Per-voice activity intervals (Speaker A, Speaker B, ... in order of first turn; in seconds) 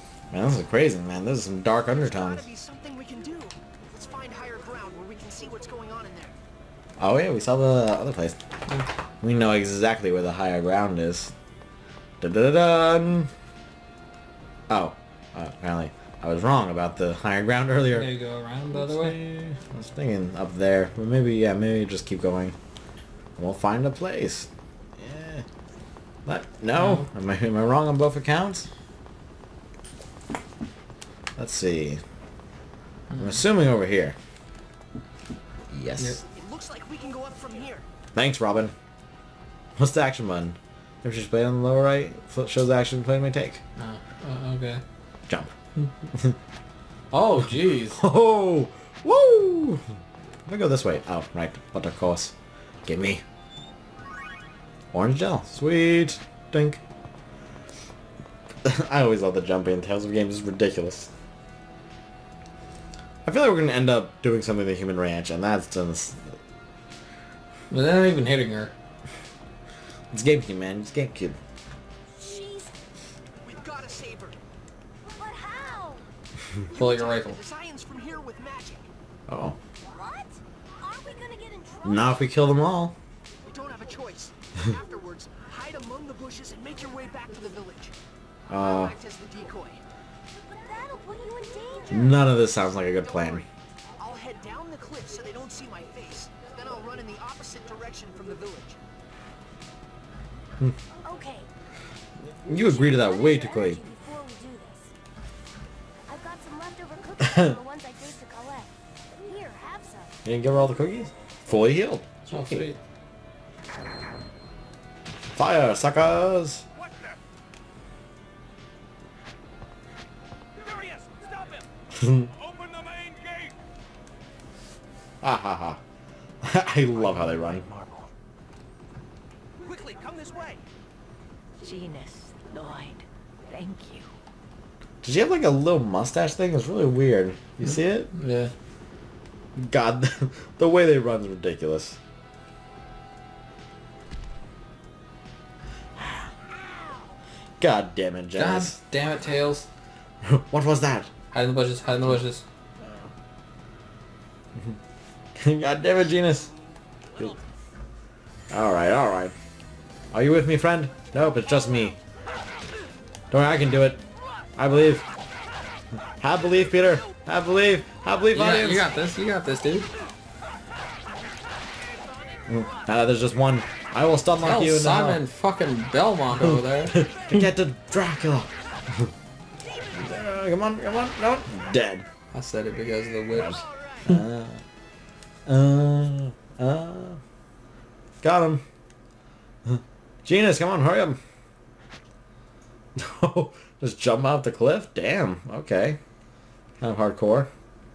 Speaker A: 0.3-2.5, 7.0-8.4, 9.2-11.3, 12.2-13.3, 14.7-18.1, 18.7-22.6, 23.4-25.4, 26.3-28.7, 31.4-32.0, 33.2-34.2, 35.7-36.2, 38.1-38.7, 39.8-43.6, 47.9-49.8, 50.5-52.3, 52.9-53.2, 54.9-56.8, 58.6-61.1, 63.2-66.4, 70.1-71.4, 79.3-79.6, 81.8-83.0, 88.5-89.0, 91.9-93.5, 102.4-103.8, 107.2-107.5, 110.2-112.7, 115.4-116.7, 122.0-122.3, 125.2-125.8, 126.4-127.7, 135.0-138.1, 139.6-142.0, 146.0-146.3, 147.6-148.8, 150.2-151.1, 155.4-156.5, 158.5-159.3, 160.1-162.0, 163.3-164.0, 164.6-165.1, 166.2-168.8, 172.5-175.2, 176.9-179.1, 179.9-182.1, 183.3-184.6, 185.5-187.2, 188.2-188.6, 189.7-191.2, 193.0-196.0, 196.8-197.5
Speaker B: 1.9-6.4, 36.3-37.9, 73.4-74.4, 76.7-78.9, 83.5-88.0, 88.5-89.8, 93.0-93.5, 94.0-98.8, 183.3-184.2
Speaker C: 17.9-19.2, 26.8-27.1, 43.8-44.8, 47.1-48.0, 67.7-68.7, 76.8-77.4, 112.3-112.8, 137.7-138.5, 148.4-149.7, 151.3-152.4, 168.3-169.9, 174.4-177.0, 182.3-183.6
Speaker D: 72.2-72.7, 75.0-76.1, 79.8-82.3, 90.3-92.2, 101.0-101.5, 102.5-104.9, 106.1-110.2
Speaker E: 116.7-117.2, 120.6-121.7, 122.2-123.5, 127.7-128.0, 129.6-130.6
Speaker F: 131.6-134.1